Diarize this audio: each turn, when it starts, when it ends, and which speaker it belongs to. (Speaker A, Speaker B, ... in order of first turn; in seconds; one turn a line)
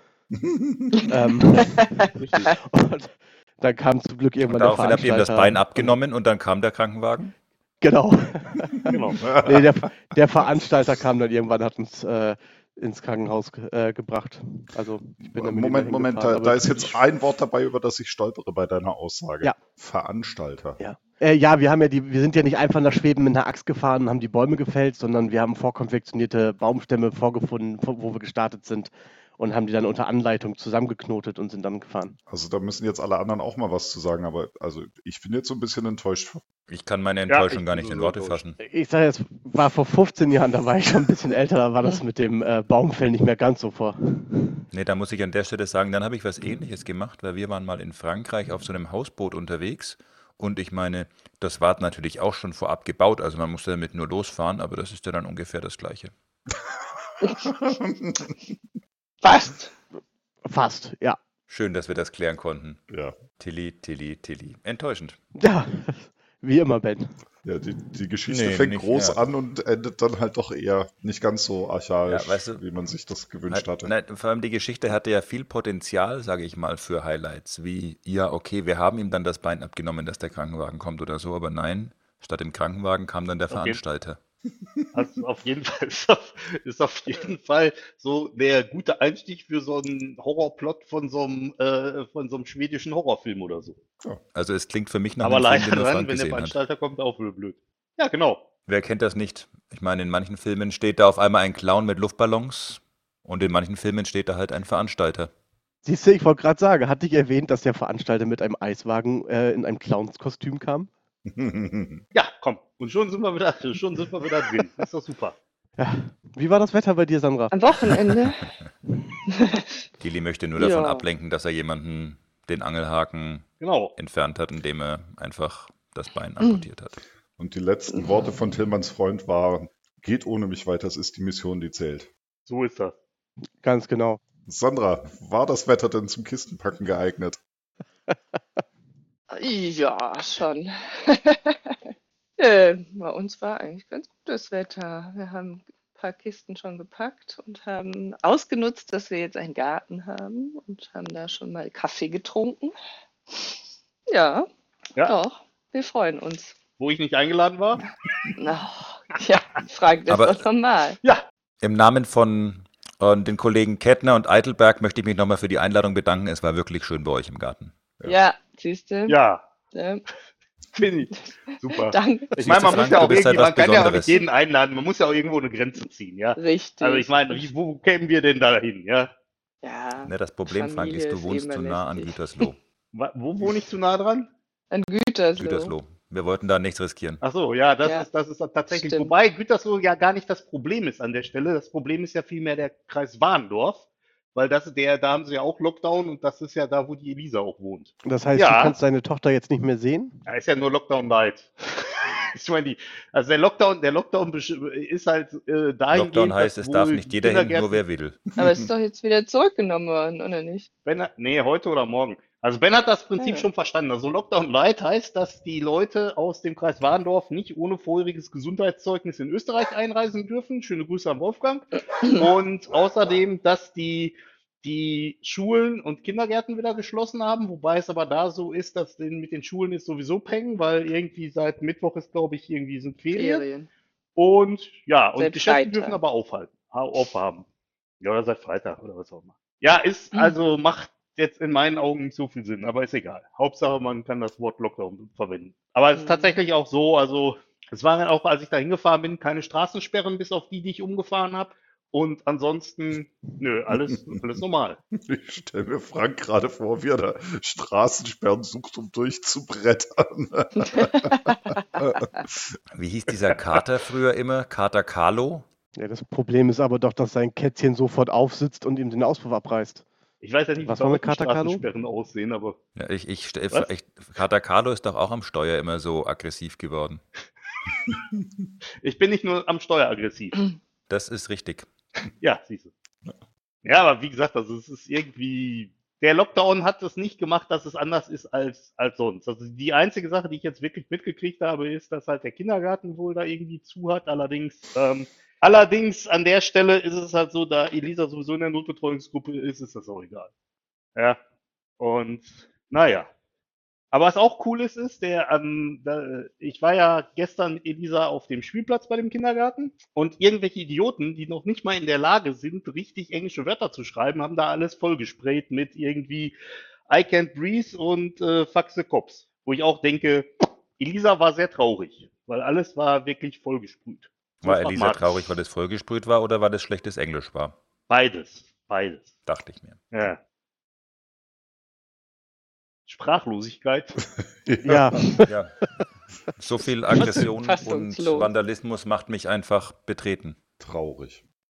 Speaker A: 0.3-1.1
Speaker B: 1.1-6.0
Speaker C: 2.2-2.6
Speaker D: 4.4-7.3
Speaker B: 7.8-17.0
Speaker C: 8.9-9.2
Speaker A: 9.2-9.7
Speaker A: 15.2-20.8
Speaker B: 20.8-32.2
Speaker A: 32.3-36.4
Speaker D: 36.7-38.6
Speaker C: 37.3-38.4
Speaker B: 38.6-44.6
Speaker D: 44.7-56.1
Speaker A: 57.3-58.4
Speaker E: 59.2-59.7
Speaker B: 60.5-61.2
Speaker D: 61.5-62.8
Speaker A: 62.9-63.2
Speaker D: 63.4-65.2
Speaker B: 65.4-67.1
Speaker A: 67.4-73.9
Speaker D: 68.3-69.2
Speaker D: 72.0-72.6
Speaker D: 73.5-84.2
Speaker C: 83.5-83.8
Speaker C: 84.9-93.8
Speaker D: 94.3-96.6
Speaker C: 95.2-98.4
Speaker D: 98.7-105.3
Speaker B: 105.8-110.9
Speaker A: 111.3-112.0
Speaker C: 112.1-115.4
Speaker B: 115.8-117.6
Speaker E: 117.5-118.5
Speaker E: 119.3-119.8
Speaker D: 120.0-127.0
Speaker E: 120.6-121.1
Speaker C: 123.6-124.0
Speaker A: 127.4-132.1
Speaker E: 127.9-128.2
Speaker C: 132.4-132.9
Speaker B: 133.6-134.2
Speaker A: 134.4-137.4
Speaker E: 139.3-152.7
Speaker E: 154.1-154.4
Speaker E: 155.1-156.6
Speaker C: 156.8-157.8
Speaker E: 158.4-161.0
Speaker D: 160.1-160.5
Speaker D: 161.6-167.7
Speaker E: 168.1-169.2
Speaker C: 169.1-169.4
Speaker E: 169.7-170.0
Speaker C: 170.7-171.1
Speaker C: 171.6-179.1
Speaker E: 171.6-172.4
Speaker D: 172.4-174.2
Speaker E: 176.4-177.4
Speaker E: 179.6-182.3
Speaker D: 180.0-182.6
Speaker C: 182.9-184.3
Speaker E: 184.7-185.8
Speaker D: 185.4-187.2
Speaker C: 187.2-198.8
Speaker E: 188.7-189.1
Speaker B: 198.0-200.2
Speaker C: 200.3-207.8
Speaker D: 205.9-208.2
Speaker E: 208.4-210.7
Speaker C: 210.8-233.4
Speaker E: 213.2-213.5
Speaker E: 233.2-233.7
Speaker C: 234.2-237.4
Speaker E: 235.2-236.0
Speaker C: 238.0-254.8
Speaker E: 245.9-246.4
Speaker A: 253.7-254.2
Speaker A: 254.9-261.2
Speaker E: 260.7-261.3
Speaker A: 261.8-262.6
Speaker D: 262.7-265.4
Speaker B: 265.8-269.8
Speaker C: 270.2-272.6
Speaker B: 270.6-271.7
Speaker D: 272.8-277.0
Speaker C: 278.8-280.4
Speaker D: 280.9-281.7
Speaker C: 282.2-282.7
Speaker C: 283.6-300.3
Speaker C: 301.8-303.1
Speaker C: 303.9-316.4
Speaker C: 316.9-325.2
Speaker D: 324.4-327.6
Speaker C: 327.9-329.1
Speaker D: 329.3-329.8
Speaker C: 329.9-330.2
Speaker C: 332.9-334.0
Speaker A: 334.2-335.1
Speaker B: 334.6-335.3
Speaker D: 335.3-335.7
Speaker D: 336.4-340.4
Speaker C: 337.0-337.3
Speaker E: 337.4-338.3
Speaker A: 340.6-341.2